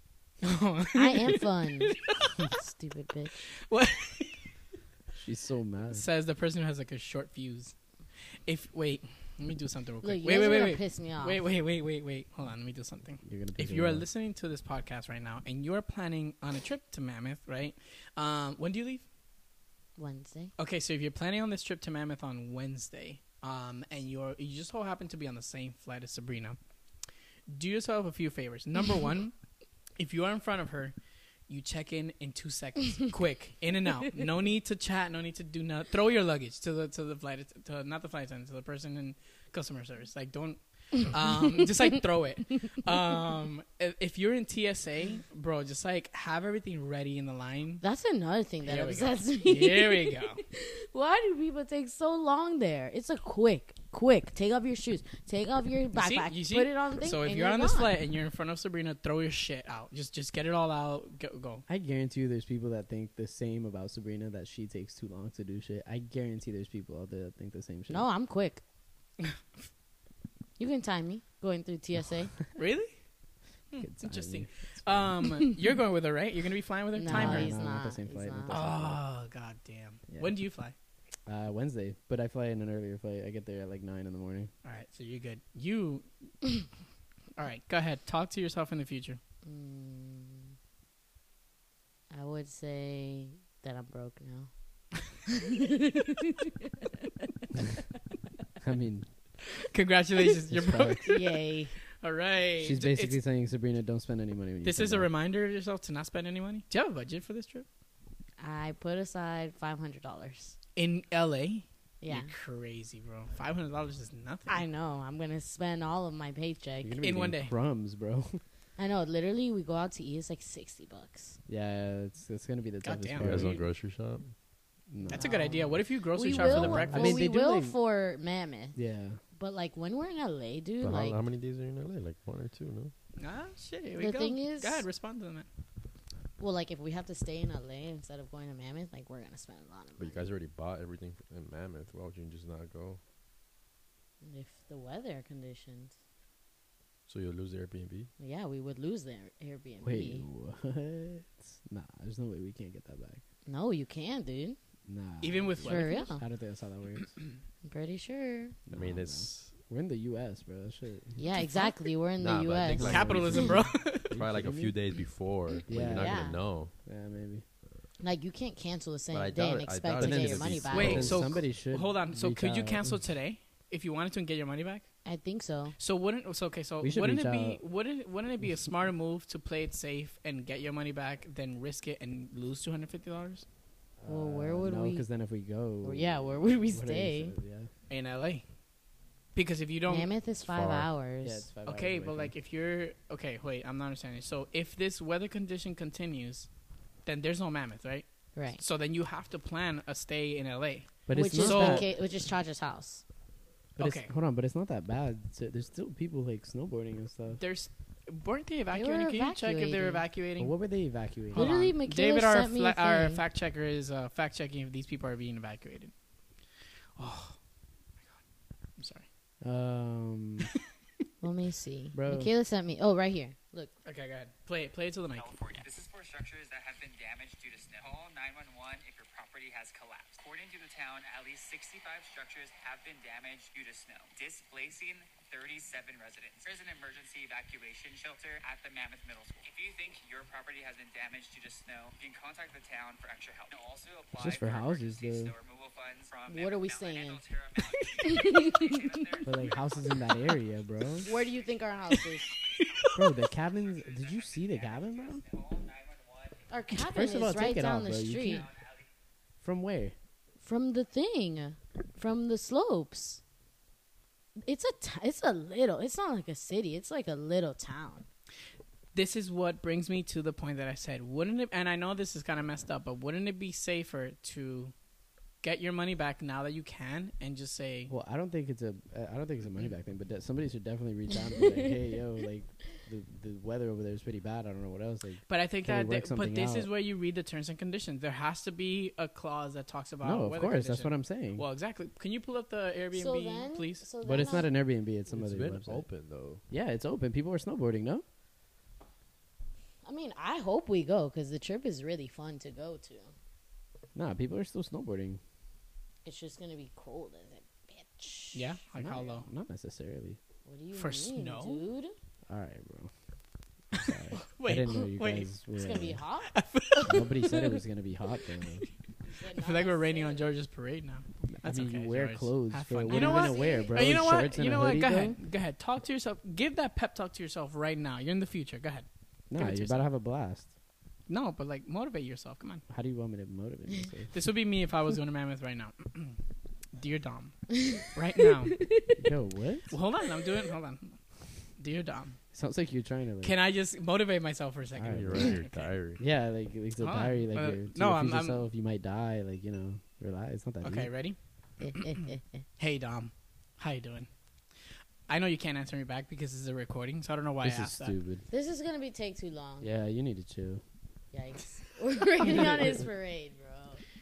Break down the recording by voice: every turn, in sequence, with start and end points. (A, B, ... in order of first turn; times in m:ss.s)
0:00.4-0:02.5 A
0:00.9-0:03.4 B
0:03.5-0:04.5 A
0:05.2-0:06.0 C
0:05.9-0:07.7 A
0:08.4-0:19.0 A
0:10.0-0:11.4 B
0:13.2-0:14.0 C
0:20.0-0:20.5 B
0:20.6-0:26.6 A
0:27.5-0:29.3 A
0:30.0-0:30.9 A
0:31.5-0:47.8 A
0:47.8-0:57.9 B
0:48.6-0:50.4 A
0:55.9-1:01.6 A
1:01.7-1:08.0 C
1:07.9-1:08.6 B
1:10.6-1:12.4 B
1:12.6-1:13.0 A
1:13.7-1:17.5 A
1:13.8-1:15.2 C
1:17.0-1:18.6 B
1:17.1-1:19.0 C
1:18.5-1:20.7 A
1:20.1-1:20.3 C
1:21.2-1:24.5 C
1:24.6-1:26.1 A
1:27.4-1:29.2 A
1:29.4-1:30.5 B
1:32.1-1:34.5 B
1:35.3-1:36.7 B
1:38.6-1:39.1 C
1:39.6-1:41.4 A
1:40.5-1:41.0 C
1:41.0-1:41.7 B
1:42.0-1:43.2 A
1:42.6-1:45.1 C
1:44.6-1:47.6 A
1:48.4-1:50.6 B
1:50.8-1:54.6 A
1:52.0-1:52.3 B
1:54.5-1:57.0 B
1:56.8-1:58.4 C
1:57.0-1:57.5 A
1:58.8-2:01.4 B
2:01.5-2:03.6 C
2:02.8-2:03.6 A
2:03.2-2:04.3 D
2:04.9-2:05.3 C
2:05.1-2:07.2 A
2:05.1-2:08.8 B
2:06.4-2:06.8 D
2:06.4-2:07.8 C
2:08.7-2:09.2 C
2:09.3-2:11.2 B
2:10.8-2:12.9 D
2:13.2-2:15.5 A
2:14.0-2:14.8 B
2:16.4-2:20.3 B
2:20.0-2:23.0 D
2:24.2-2:25.9 B
2:27.1-2:28.1 D
2:28.2-2:30.2 B
2:29.8-2:33.2 C
2:33.4-2:34.6 B
2:34.9-2:37.2 C
2:35.2-2:36.1 A
2:35.6-2:36.2 B
2:37.6-2:38.6 B
2:38.7-2:41.2 C
2:38.7-2:39.5 D
2:41.2-2:43.5 B
2:42.2-2:46.7 D
2:42.7-2:44.8 C
2:42.7-2:44.2 A
2:45.7-2:46.2 C
2:45.8-2:46.4 B
2:46.8-2:47.4 C
2:48.0-2:51.2 B
2:49.1-2:51.2 D
2:50.0-2:53.0 C
2:50.7-2:54.9 A
2:55.0-2:55.8 B
2:55.8-3:03.4 A
2:56.8-2:57.6 C
3:04.0-3:07.7 C
3:04.1-3:05.1 B
3:05.8-3:07.3 B
3:07.9-3:08.4 A
3:09.3-3:10.1 A
3:09.9-3:11.4 B
3:10.4-3:10.9 D
3:11.2-3:12.3 C
3:11.6-3:16.5 A
3:17.0-3:22.0 A
3:18.3-3:18.6 B
3:21.1-3:21.9 C
3:21.1-3:23.0 B
3:23.8-3:27.4 C
3:23.8-3:24.1 A
3:27.4-3:30.5 A
3:28.7-3:30.0 B
3:30.4-3:31.6 C
3:31.3-3:35.9 A
3:31.3-3:33.2 B
3:37.0-3:37.4 A
3:38.8-3:39.0 A
3:39.4-3:40.5 C
3:41.2-3:43.7 B
3:41.9-3:42.3 C
3:43.8-3:45.4 A
3:45.1-4:10.4 E
4:04.1-4:05.3 C
4:06.3-4:07.2 B
4:07.6-4:08.4 A
4:08.0-4:09.2 B
4:09.2-4:11.1 C
4:11.0-4:12.3 B
4:11.9-4:13.2 A
4:12.3-4:16.5 E
4:12.9-4:15.2 C
4:16.5-4:18.5 B
4:16.8-4:18.5 C
4:18.3-4:18.8 E
4:19.4-4:19.9 C
4:20.4-4:23.2 B
4:24.4-4:28.1 B
4:28.9-4:34.7 A
4:35.4-4:37.9 A
4:37.9-4:46.7 C
4:45.3-4:53.8 A
4:50.0-4:51.4 C
4:52.9-4:54.5 B
4:54.0-4:55.8 C
4:55.1-4:56.4 D
4:56.5-4:58.0 C
4:59.8-5:03.1 B
5:03.9-5:05.2 C
5:06.0-5:08.4 B
5:08.3-5:09.2 A
5:08.8-5:10.2 C
5:10.4-5:11.9 B
5:10.7-5:11.6 A
5:12.3-5:12.9 C
5:13.7-5:16.0 C
5:13.8-5:15.3 A
5:15.6-5:17.0 B
5:16.3-5:17.3 A
5:16.9-5:18.7 C
5:19.0-5:20.3 B
5:19.3-5:29.8 A
5:21.4-5:25.2 C
5:22.9-5:23.9 B
5:29.3-5:30.5 C
5:31.1-5:32.6 A
5:32.7-5:34.1 C
5:34.1-5:36.2 A
5:36.8-5:38.6 A
5:37.5-5:37.8 B
5:38.6-5:39.0 B
5:39.0-5:39.7 C
5:39.7-5:41.0 A
5:41.6-5:42.2 A
5:42.3-5:43.4 C
5:43.2-5:45.7 A
5:44.7-5:45.3 C
5:44.9-5:46.0 D
5:46.0-5:50.9 C
5:46.8-5:48.4 A
5:50.6-5:51.2 A
5:51.6-5:52.4 B
5:51.7-5:52.0 A
5:52.6-5:54.1 A
5:55.1-5:57.9 A
5:57.4-5:58.2 C
5:58.3-5:59.7 B
5:59.6-6:00.6 C
6:01.1-6:03.8 B
6:02.2-6:02.9 C